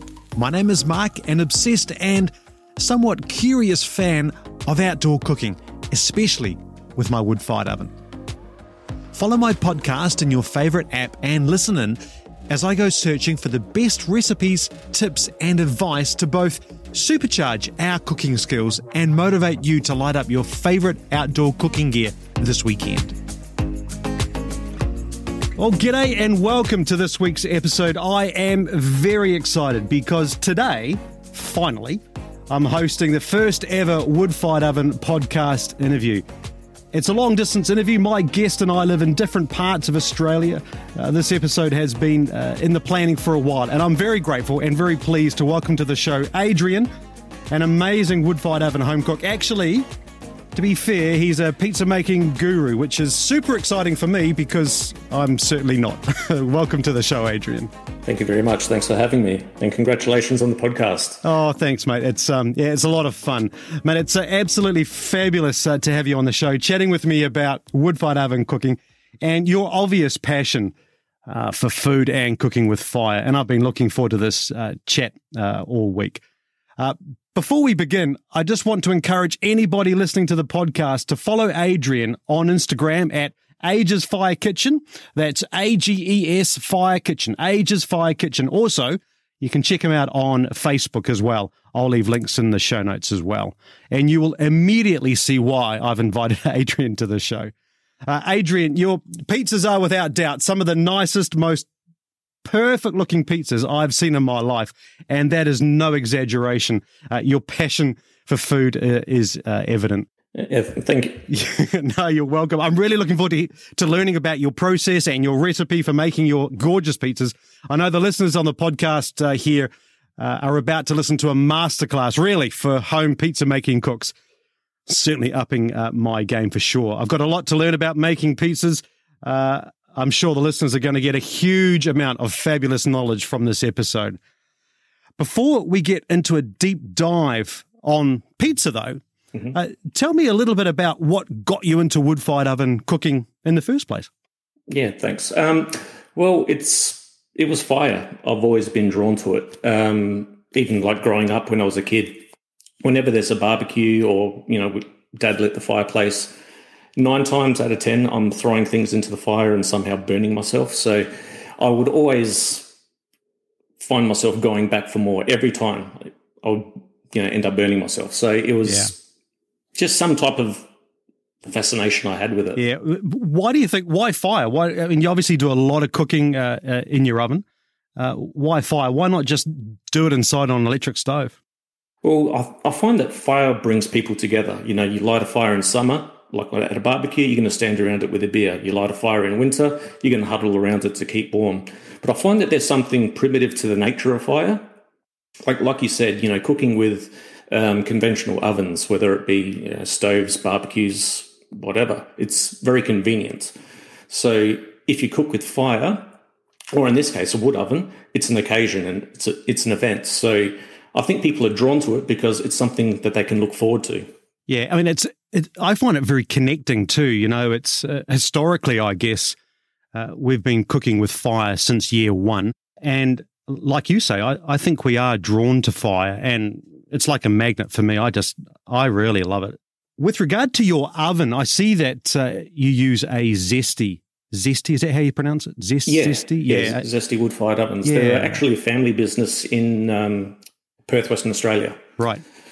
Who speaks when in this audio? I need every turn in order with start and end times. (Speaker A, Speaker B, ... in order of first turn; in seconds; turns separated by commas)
Speaker A: 0.4-7.9, Speaker A: 9.1-23.2, Speaker A: 25.6-36.2, Speaker A: 36.9-46.9, Speaker A: 47.5-49.9, Speaker A: 50.5-57.7, Speaker B: 58.1-61.2, Speaker A: 61.2-70.7, Speaker A: 71.3-76.2, Speaker A: 76.8-97.5, Speaker A: 98.0-101.7, Speaker A: 102.4-110.1, Speaker B: 110.3-111.3, Speaker A: 111.3-124.2, Speaker A: 124.9-134.2, Speaker A: 135.2-139.0, Speaker A: 139.5-144.1, Speaker B: 144.7-152.3, Speaker B: 152.8-156.4, Speaker B: 157.0-162.7, Speaker B: 163.8-169.0, Speaker A: 168.7-168.9, Speaker B: 169.8-170.7, Speaker B: 171.4-172.6, Speaker A: 172.6-177.4, Speaker A: 178.0-181.4, Speaker B: 182.0-194.6, Speaker B: 195.5-203.5, Speaker B: 204.1-206.1, Speaker B: 206.7-214.1, Speaker A: 214.5-219.4, Speaker A: 219.9-236.8, Speaker B: 235.9-241.8, Speaker A: 237.8-238.4